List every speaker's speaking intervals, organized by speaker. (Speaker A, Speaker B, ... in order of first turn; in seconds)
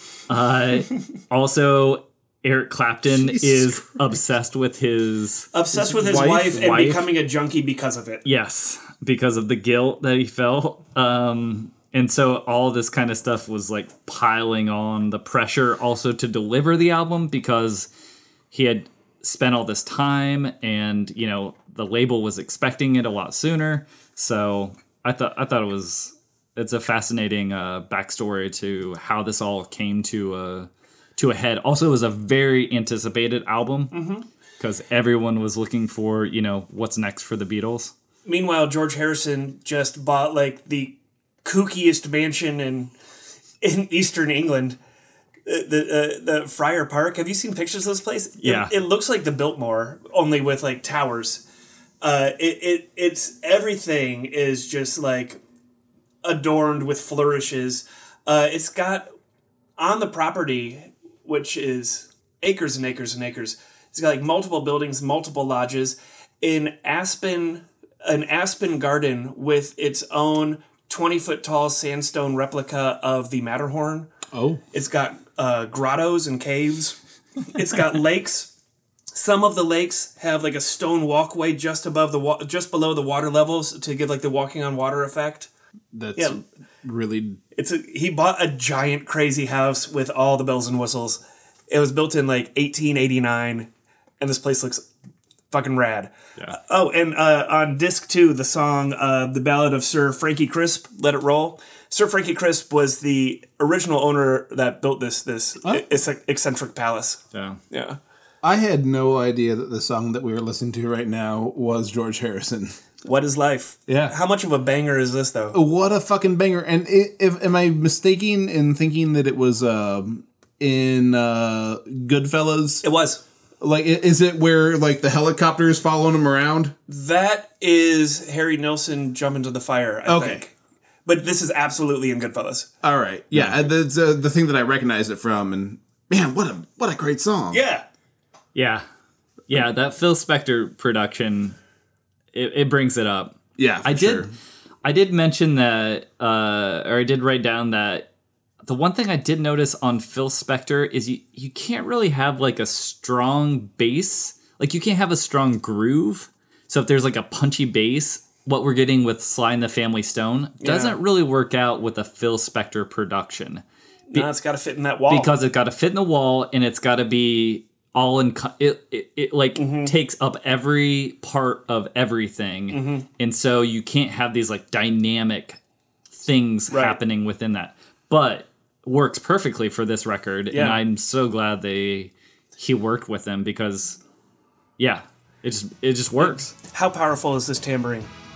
Speaker A: 0.3-5.5, 6.6-7.0, 8.2-17.9, 18.5-33.9, 34.6-37.9, 48.4-48.7, 107.3-107.6, 138.6-138.8, 139.5-141.6, 142.3-144.3, 144.8-148.1, 148.6-164.3, 165.1-175.6, 176.1-184.0, 184.8-186.5
Speaker B: 3.1-4.2, 5.7-7.0, 74.3-74.6, 85.9-87.4, 108.4-112.8, 113.9-114.2, 115.5-122.8, 123.6-126.7, 130.1-130.4, 132.8-137.6, 143.6-144.3
Speaker C: 5.5-8.2, 33.9-34.2, 38.2-42.9, 43.6-44.8, 45.5-51.4, 52.0-55.4, 56.2-59.1, 59.8-74.1, 74.7-78.5, 79.1-85.5, 87.5-93.7, 94.2-94.9, 95.5-108.0, 113.0-115.6, 122.8-123.2, 126.9-130.5, 131.1-132.7, 137.5-137.8, 160.6-161.0, 164.1-165.3, 169.6-169.9, 172.7-173.1, 176.7-177.0, 180.5-180.8, 186.2-188.1